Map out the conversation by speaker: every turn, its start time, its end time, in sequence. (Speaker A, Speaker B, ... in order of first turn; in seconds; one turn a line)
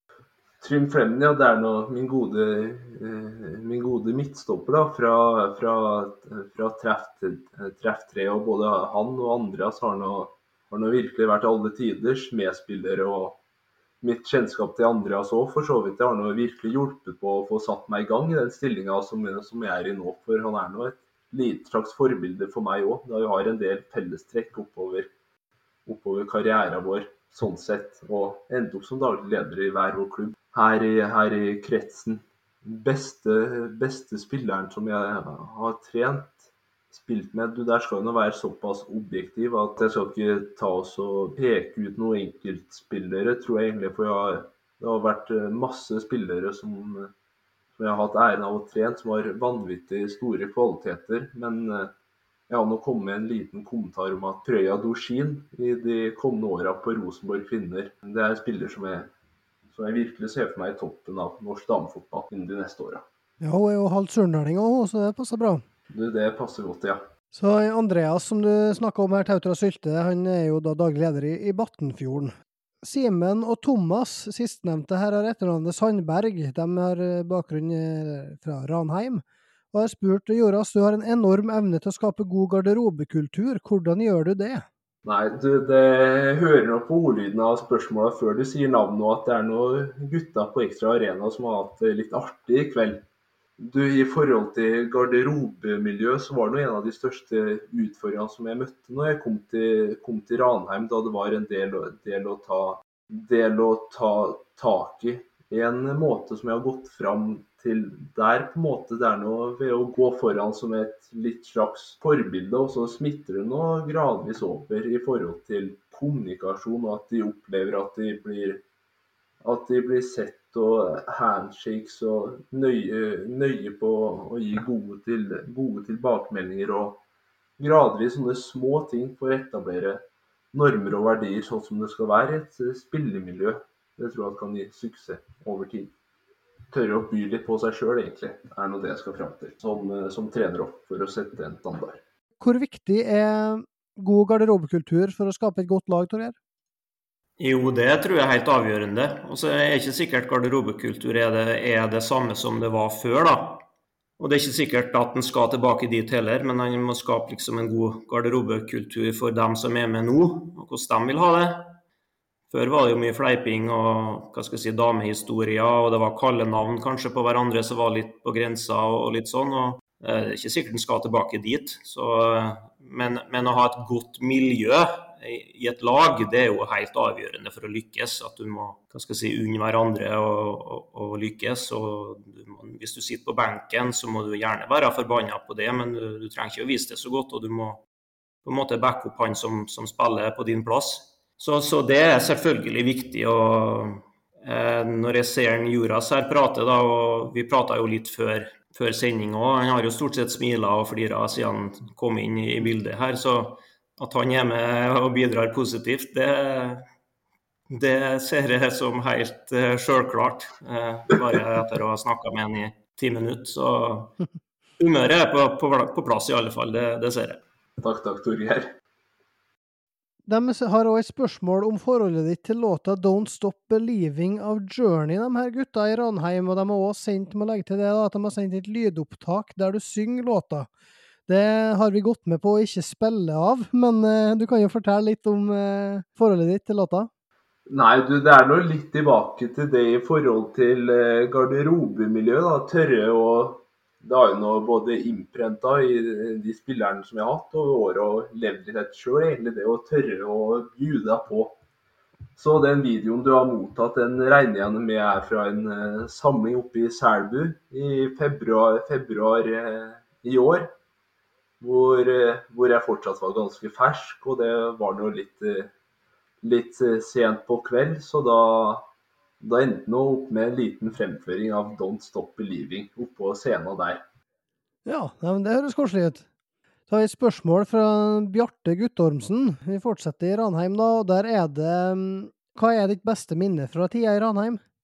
Speaker A: 0.6-13.4
Speaker A: 14.0-25.1
Speaker A: 25.9-47.1
Speaker A: 47.8-51.9
Speaker A: 52.5-59.1
Speaker A: 59.7-63.0
Speaker B: 63.4-65.6
Speaker A: 65.9-67.0
Speaker B: 67.3-84.7
Speaker A: 85.0-93.0
Speaker A: 93.6-118.6
Speaker A: 119.4-127.0
Speaker A: 127.6-135.9
Speaker A: 136.7-142.0
Speaker B: 142.4-146.4
Speaker C: 147.4-153.7
Speaker C: 154.2-161.8
Speaker C: 162.5-187.8
Speaker C: 188.4-206.8
Speaker C: 207.7-214.2
Speaker C: 214.8-217.4
Speaker A: 217.8-218.7
Speaker B: 220.3-230.7
Speaker B: 231.3-237.1
Speaker A: 237.7-251.6
Speaker A: 252.3-260.7
Speaker A: 261.6-265.7
Speaker A: 266.4-268.9
Speaker A: 269.4-274.0
Speaker B: 274.9-276.2
Speaker B: 276.9-284.6